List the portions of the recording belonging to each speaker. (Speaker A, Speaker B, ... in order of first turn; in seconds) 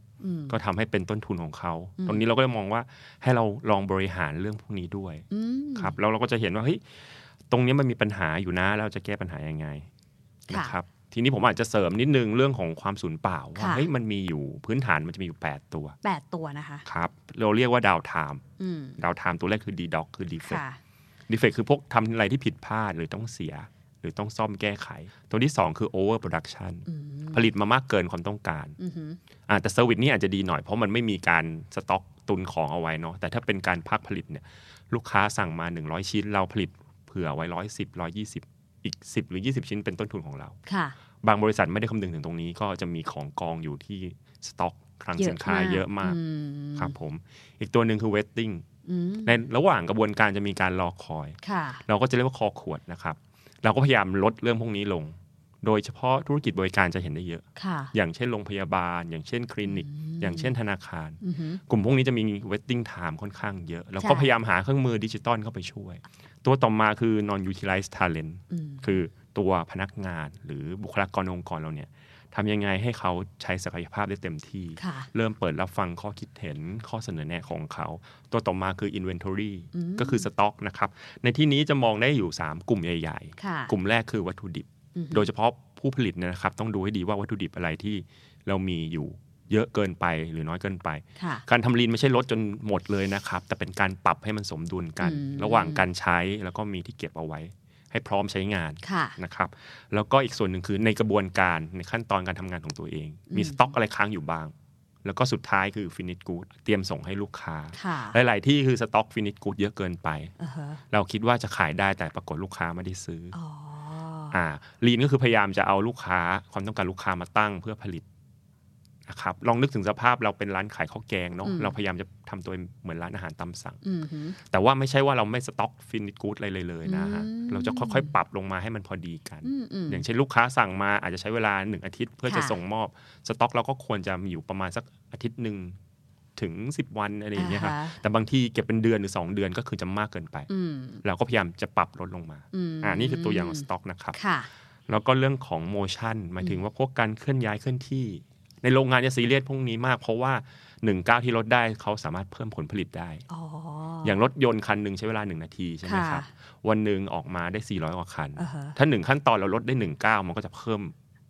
Speaker A: 0.2-0.5, 5.3-5.9, 10.5-10.8, 13.6-13.9, 16.0-16.9, 18.6-19.0, 20.4-20.8, 26.9-27.4, 28.8-29.2, 40.7-40.9, 45.2-46.9, 48.9-49.4, 51.4-51.8, 57.6-57.9, 59.6-60.5, 61.2-61.6, 64.0-64.3, 68.5-68.8, 74.8-75.1, 79.7-80.2, 83.4-83.7, 84.9-85.2, 91.2-91.4, 95.0-95.8, 98.8-99.2, 103.3-103.7, 107.8-108.2, 110.4-110.8, 113.3-114.4, 121.4-121.7, 123.8-124.4, 126.8-128.1, 129.4-130.0, 132.2-132.6, 137.4-138.0, 140.5-141.0, 142.5-144.5, 153.3-154.1, 155.8-156.3, 158.4-158.8
Speaker B: 0.5-5.2, 5.8-9.9, 10.5-16.0, 16.9-18.4, 19.0-20.6, 21.3-28.8, 29.5-40.6, 41.2-46.2, 46.8-48.6, 49.2-110.3, 110.9-113.3, 114.3-118.0, 119.1-123.8, 124.4-135.8, 136.4-140.5, 141.0-144.2, 144.9-153.2, 154.0-160.9